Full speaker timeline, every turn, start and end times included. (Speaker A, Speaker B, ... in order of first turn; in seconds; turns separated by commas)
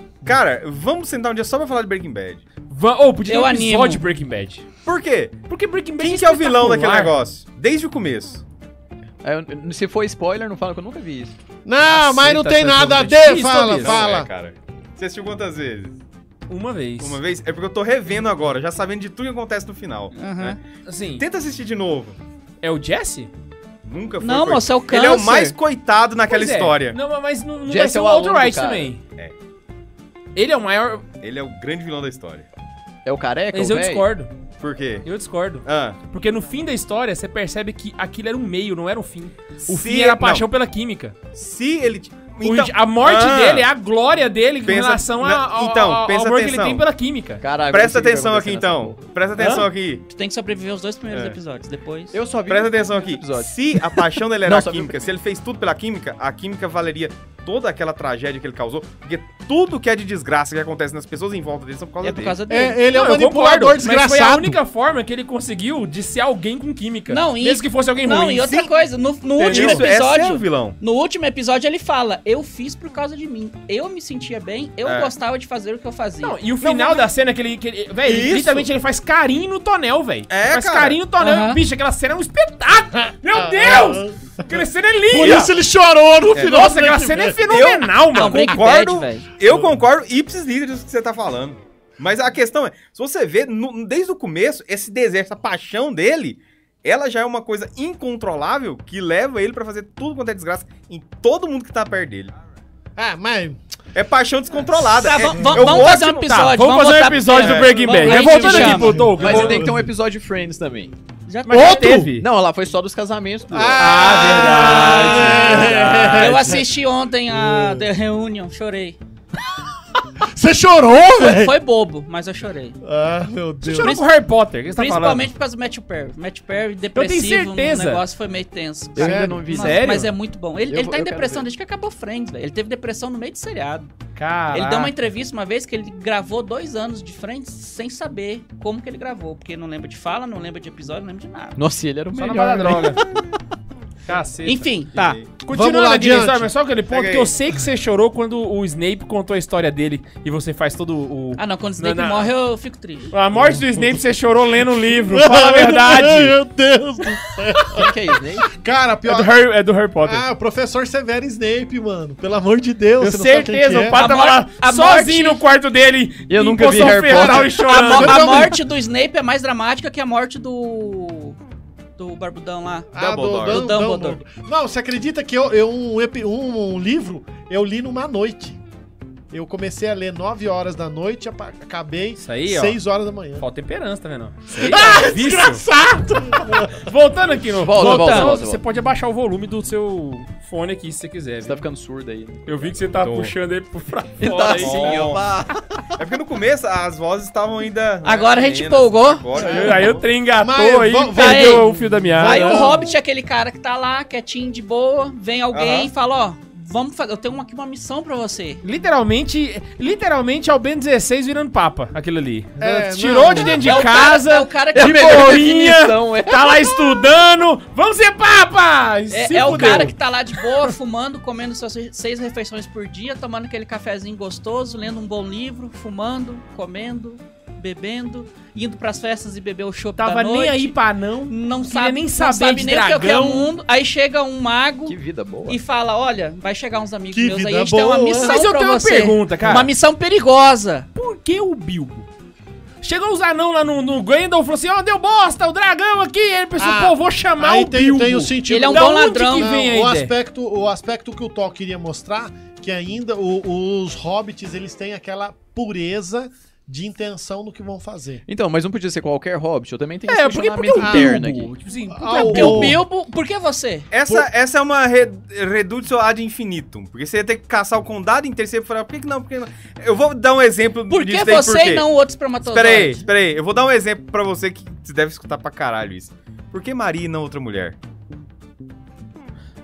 Speaker A: 0.2-2.4, Speaker B: 2.7-4.7, Speaker C: 3.3-4.0, Speaker A: 4.8-5.4, Speaker B: 5.5-7.2, Speaker A: 6.0-8.4, Speaker D: 9.2-11.3, Speaker E: 11.7-14.3, Speaker B: 11.9-14.0, Speaker A: 13.8-16.0, Speaker B: 16.5-17.2, Speaker A: 17.0-20.6, Speaker C: 20.1-20.6, Speaker B: 20.9-21.2, Speaker A: 21.2-22.2, Speaker B: 22.6-23.3, Speaker A: 23.8-27.0, Speaker C: 24.2-25.6, Speaker B: 26.3-29.0, Speaker D: 27.7-28.9, Speaker B: 30.4-31.1, Speaker A: 31.2-32.5, Speaker D: 33.0-34.1, Speaker B: 33.5-34.3, Speaker A: 34.6-35.1, Speaker B: 35.0-41.1, Speaker A: 35.6-36.0, Speaker A: 39.6-40.5, Speaker A: 41.3-43.7, Speaker B: 42.4-47.4, Speaker A: 44.6-46.8, Speaker D: 47.4-49.0, Speaker A: 47.7-50.0, Speaker B: 49.4-49.7, Speaker C: 50.1-52.1, Speaker A: 51.1-51.4, Speaker D: 52.1-55.1, Speaker A: 52.5-62.4, Speaker C: 62.0-62.8, Speaker E: 62.5-64.6, Speaker B: 62.9-68.6, Speaker C: 67.1-76.4, Speaker A: 69.3-70.8, Speaker B: 69.4-69.8, Speaker A: 74.8-75.1, Speaker B: 76.2-85.5, Speaker A: 76.6-77.0, Speaker A: 78.0-78.7, Speaker A: 80.3-81.0, Speaker C: 81.2-81.6, Speaker E: 83.4-84.6, Speaker E: 85.1-87.4, Speaker A: 86.3-86.7, Speaker B: 86.3-88.6, Speaker A: 87.5-102.3, Speaker C: 88.1-89.3, Speaker E: 103.0-103.6, Speaker A: 104.0-106.2, Speaker C: 104.9-109.1, Speaker B: 105.6-109.7, Speaker A: 107.4-107.7, Speaker E: 107.7-109.8, Speaker D: 109.2-110.9, Speaker C: 111.3-112.0, Speaker B: 111.5-112.3, Speaker E: 111.5-112.1, Speaker D: 112.2-116.1, Speaker E: 113.5-116.7, Speaker B: 113.8-116.6, Speaker C: 116.1-119.0, Speaker E: 117.3-117.9, Speaker E: 120.3-121.5, Speaker C: 121.2-122.8, Speaker E: 122.8-124.0, Speaker B: 123.6-125.3, Speaker C: 123.8-124.1, Speaker C: 124.8-133.9, Speaker B: 127.0-128.0, Speaker D: 128.9-130.0, Speaker E: 129.0-129.4, Speaker B: 129.5-130.1, Speaker D: 130.7-131.5, Speaker B: 134.2-134.9, Speaker C: 134.5-141.6, Speaker D: 141.6-143.2, Speaker B: 142.2-143.0, Speaker B: 144.1-144.7, Speaker C: 144.4-145.2, Speaker A: 144.9-145.4, Speaker B: 145.4-152.3, Speaker E: 145.5-146.5, Speaker A: 146.9-147.3, Speaker C: 151.4-153.1, Speaker B: 153.1-156.4, Speaker E: 153.3-153.9, Speaker E: 155.0-157.9, Speaker D: 157.7-158.5, Speaker E: 158.5-159.4, Speaker B: 159.1-160.2, Speaker E: 160.0-164.0, Speaker B: 163.0-168.5, Speaker C: 163.9-165.4, Speaker D: 166.3-167.7, Speaker E: 167.2-168.6, Speaker C: 167.7-171.4, Speaker C: 172.0-174.2, Speaker E: 172.9-178.6, Speaker A: 172.9-173.7, Speaker E: 179.3-183.4, Speaker B: 182.2-182.8, Speaker B: 183.4-191.7, Speaker E: 184.5-186.9, Speaker D: 187.5-188.6, Speaker C: 187.8-188.4, Speaker D: 191.4-192.9, Speaker B: 192.5-195.1, Speaker A: 193.0-193.3, Speaker D: 194.2-195.8, Speaker A: 194.6-195.2, Speaker A: 196.0-200.0, Speaker C: 198.0-199.3, Speaker E: 199.3-202.9, Speaker B: 199.4-202.8, Speaker C: 201.2-201.7, Speaker C: 202.2-208.6, Speaker A: 205.5-205.9, Speaker B: 208.6-220.4, Speaker E: 212.6-213.8, Speaker C: 213.6-215.4, Speaker D: 214.8-216.9, Speaker C: 219.1-230.8, Speaker E: 219.4-219.9, Speaker B: 230.0-233.5, Speaker C: 231.3-240.9, Speaker D: 234.9-235.6, Speaker E: 237.1-238.4, Speaker B: 238.2-239.7, Speaker B: 240.9-242.1, Speaker B: 242.8-250.1, Speaker E: 246.6-258.2, Speaker C: 248.5-249.5, Speaker D: 258.3-261.5, Speaker B: 260.1-262.8, Speaker E: 260.8-261.2, Speaker E: 261.9-262.8, Speaker C: 262.1-263.9, Speaker A: 263.9-271.9, Speaker C: 270.9-273.1, Speaker A: 272.4-277.8